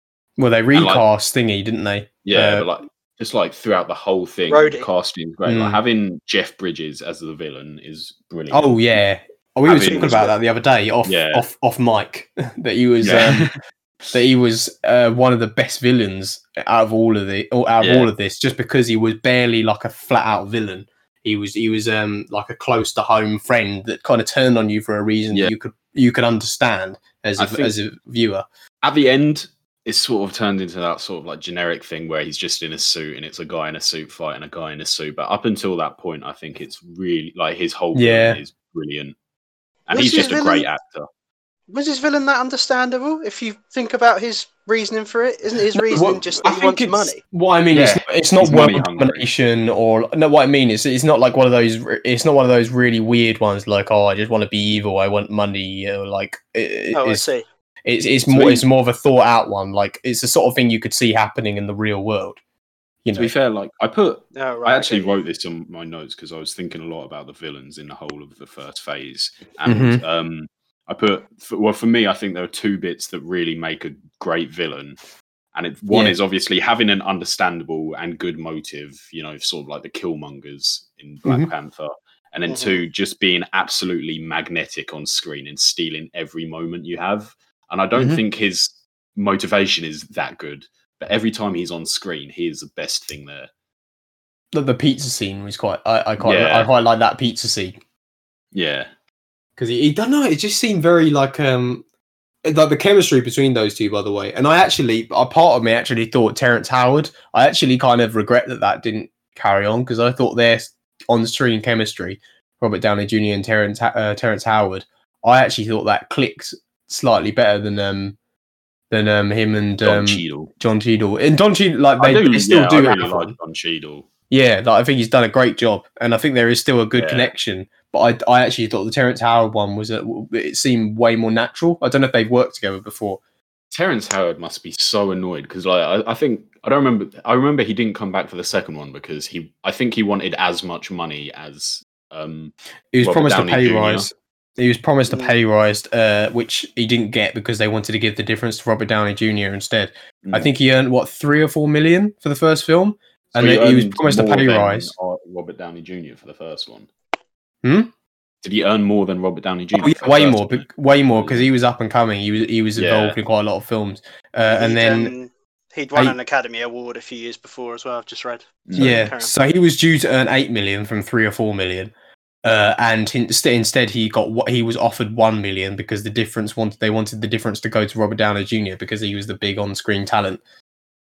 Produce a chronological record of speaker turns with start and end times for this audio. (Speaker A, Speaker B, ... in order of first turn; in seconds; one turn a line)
Speaker A: 0.4-2.6
Speaker B: 0.7-1.0
Speaker B: 2.2-9.0
Speaker C: 4.5-4.9
Speaker A: 5.5-5.8
Speaker A: 8.5-13.5
Speaker B: 9.7-10.3
Speaker C: 9.8-10.4
Speaker B: 11.0-11.4
Speaker B: 13.0-13.6
Speaker A: 14.1-28.4
Speaker B: 17.8-18.1
Speaker B: 27.4-27.7
Speaker B: 28.8-39.1
Speaker A: 37.9-38.4
Speaker B: 39.9-41.1
Speaker C: 39.9-40.7
Speaker C: 41.7-47.2
Speaker A: 45.7-57.2
Speaker B: 47.7-49.3
Speaker C: 56.9-57.4
Speaker A: 57.9-62.4
Speaker B: 58.3-58.6
Speaker A: 63.0-63.3
Speaker B: 63.1-75.0
Speaker C: 64.3-65.2
Speaker A: 69.7-70.0
Speaker B: 75.5-93.5
Speaker A: 75.9-76.2
Speaker A: 81.2-81.5
Speaker C: 82.5-82.8
Speaker A: 88.0-88.2
Speaker A: 94.5-97.8
Speaker B: 96.2-96.7
Speaker B: 98.5-98.9
Speaker A: 99.6-101.8
Speaker A: 102.4-118.2
Speaker A: 118.9-123.3
Speaker B: 119.8-120.5
Speaker B: 122.0-124.1
Speaker A: 124.3-133.2
Speaker B: 127.0-127.3
Speaker B: 133.7-144.1
Speaker A: 142.9-154.9
Speaker C: 145.1-145.3
Speaker B: 150.2-150.5
Speaker B: 153.3-156.9
Speaker A: 157.6-157.9
Speaker B: 158.4-161.5
Speaker A: 159.7-165.1
Speaker B: 162.8-163.2
Speaker C: 164.5-169.3
Speaker B: 168.7-169.1
Speaker A: 168.8-171.9
Speaker A: 172.4-180.4